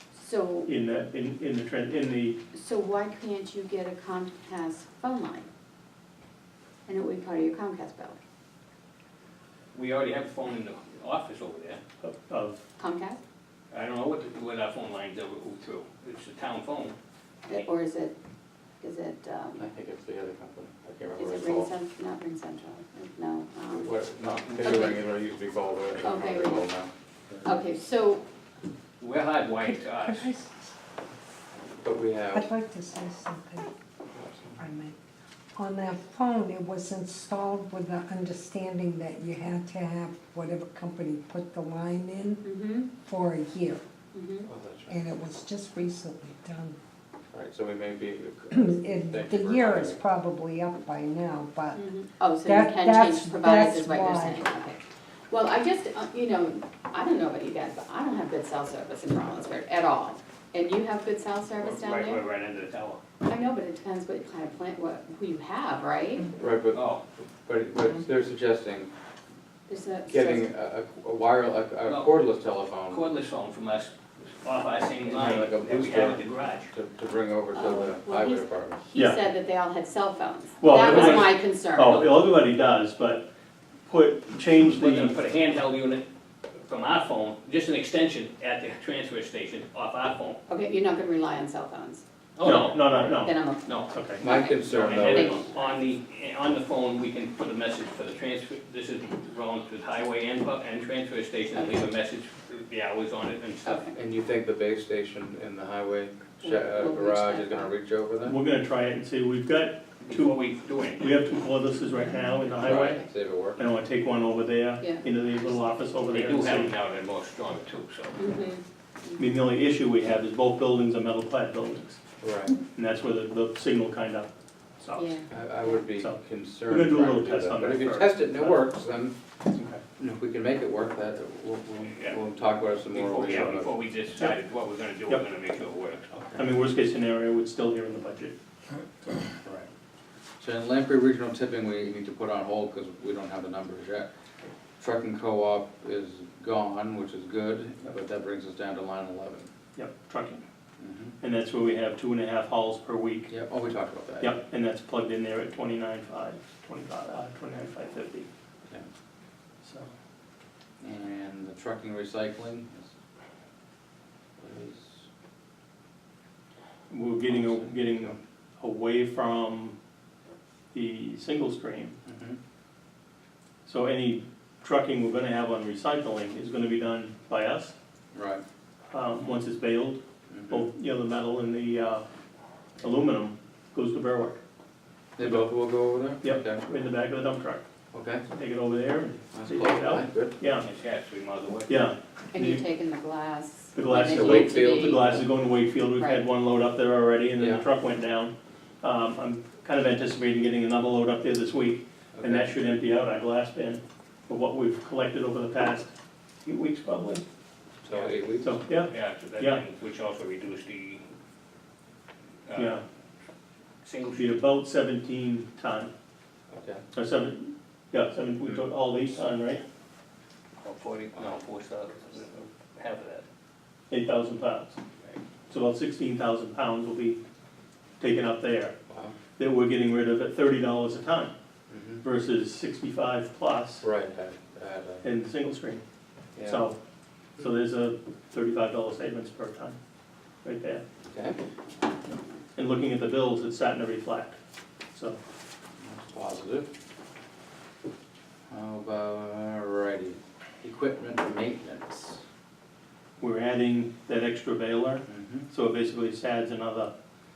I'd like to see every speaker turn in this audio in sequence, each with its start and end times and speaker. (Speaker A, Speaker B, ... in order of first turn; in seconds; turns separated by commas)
Speaker A: 0.1-0.7, Speaker B: 0.7-2.4, Speaker A: 2.5-5.5, Speaker A: 6.9-8.2, Speaker C: 9.7-11.8, Speaker B: 12.0-12.6, Speaker A: 12.8-13.2, Speaker C: 13.7-17.0, Speaker A: 17.5-18.2, Speaker A: 18.8-19.6, Speaker D: 19.6-21.7, Speaker A: 21.2-24.1, Speaker D: 23.7-27.5, Speaker A: 24.6-25.0, Speaker A: 26.0-26.7, Speaker A: 27.4-28.2, Speaker C: 29.0-30.3, Speaker E: 29.6-30.7, Speaker D: 31.8-32.5, Speaker E: 32.3-33.7, Speaker D: 34.1-34.6, Speaker E: 34.6-35.0, Speaker E: 35.6-43.8, Speaker A: 42.4-42.9, Speaker A: 44.1-44.5, Speaker D: 44.5-45.0, Speaker E: 44.9-46.8, Speaker D: 47.3-50.0, Speaker E: 48.5-51.8, Speaker A: 51.7-62.2, Speaker E: 52.5-54.5, Speaker C: 61.6-63.0, Speaker A: 63.2-66.3, Speaker D: 66.4-66.9, Speaker C: 66.7-67.0, Speaker D: 67.5-68.9, Speaker A: 69.7-70.5, Speaker D: 70.1-73.0, Speaker C: 71.9-72.1, Speaker C: 72.9-76.7, Speaker D: 75.0-78.8, Speaker A: 77.5-82.1, Speaker B: 80.6-83.3, Speaker C: 80.9-81.2, Speaker B: 83.9-85.2, Speaker C: 84.6-86.0, Speaker C: 86.5-90.4, Speaker A: 90.5-92.0, Speaker C: 92.4-93.9, Speaker B: 92.4-93.4, Speaker A: 93.0-95.9, Speaker B: 93.9-94.2, Speaker D: 94.2-95.4, Speaker C: 94.6-103.8, Speaker A: 103.7-103.9, Speaker D: 103.9-108.4, Speaker A: 106.4-107.7, Speaker B: 108.3-110.3, Speaker C: 110.0-111.3, Speaker B: 111.0-116.8, Speaker D: 112.6-113.6, Speaker A: 114.8-115.1, Speaker C: 116.1-118.2, Speaker A: 118.2-119.2, Speaker B: 119.2-122.0, Speaker D: 122.2-122.5, Speaker B: 122.7-125.1, Speaker A: 125.0-125.3, Speaker D: 125.3-129.2, Speaker B: 126.0-128.6, Speaker B: 129.5-129.8, Speaker D: 130.0-133.7, Speaker C: 131.9-132.2, Speaker C: 132.9-136.1, Speaker B: 136.3-138.3, Speaker D: 140.4-144.1, Speaker D: 144.8-149.5, Speaker B: 149.8-150.4, Speaker D: 150.8-151.2, Speaker B: 151.2-153.3, Speaker D: 153.3-154.4, Speaker B: 154.2-158.3, Speaker B: 159.6-159.9, Speaker D: 160.8-162.9, Speaker D: 164.4-165.1, Speaker B: 166.9-169.8, Speaker D: 167.3-168.2, Speaker B: 170.7-172.0, Speaker D: 172.1-172.4, Speaker B: 173.7-177.8, Speaker D: 178.1-178.4, Speaker B: 178.9-182.1, Speaker D: 180.3-180.7, Speaker B: 182.8-184.4, Speaker D: 185.2-186.6, Speaker B: 185.2-185.5, Speaker B: 186.2-187.6, Speaker D: 187.9-188.2, Speaker B: 188.3-190.7, Speaker D: 189.3-190.4, Speaker C: 190.6-191.8, Speaker B: 191.7-192.7, Speaker A: 192.3-195.1, Speaker B: 193.8-205.9, Speaker D: 193.9-195.3, Speaker A: 196.0-196.2, Speaker D: 202.2-202.5, Speaker B: 206.4-207.2, Speaker D: 207.8-208.6, Speaker B: 208.4-209.6, Speaker C: 208.9-211.1, Speaker C: 212.5-212.8, Speaker B: 212.5-212.8, Speaker C: 213.8-214.4, Speaker B: 214.1-215.9, Speaker D: 216.5-216.8, Speaker B: 216.9-219.6, Speaker C: 220.6-223.3, Speaker B: 223.9-224.8, Speaker B: 225.5-227.2, Speaker B: 228.0-228.8, Speaker D: 228.9-229.2, Speaker B: 229.4-231.3, Speaker D: 231.7-232.0, Speaker B: 232.0-233.9, Speaker D: 233.8-235.1, Speaker B: 235.0-235.8, Speaker D: 236.4-236.6, Speaker B: 236.4-236.8, Speaker B: 237.4-239.8, Speaker B: 240.4-240.8, Speaker D: 241.1-241.4, Speaker B: 242.6-244.4, Speaker B: 244.9-245.2, Speaker D: 245.8-246.7, Speaker D: 248.5-252.2, Speaker B: 253.2-256.9, Speaker D: 255.1-255.4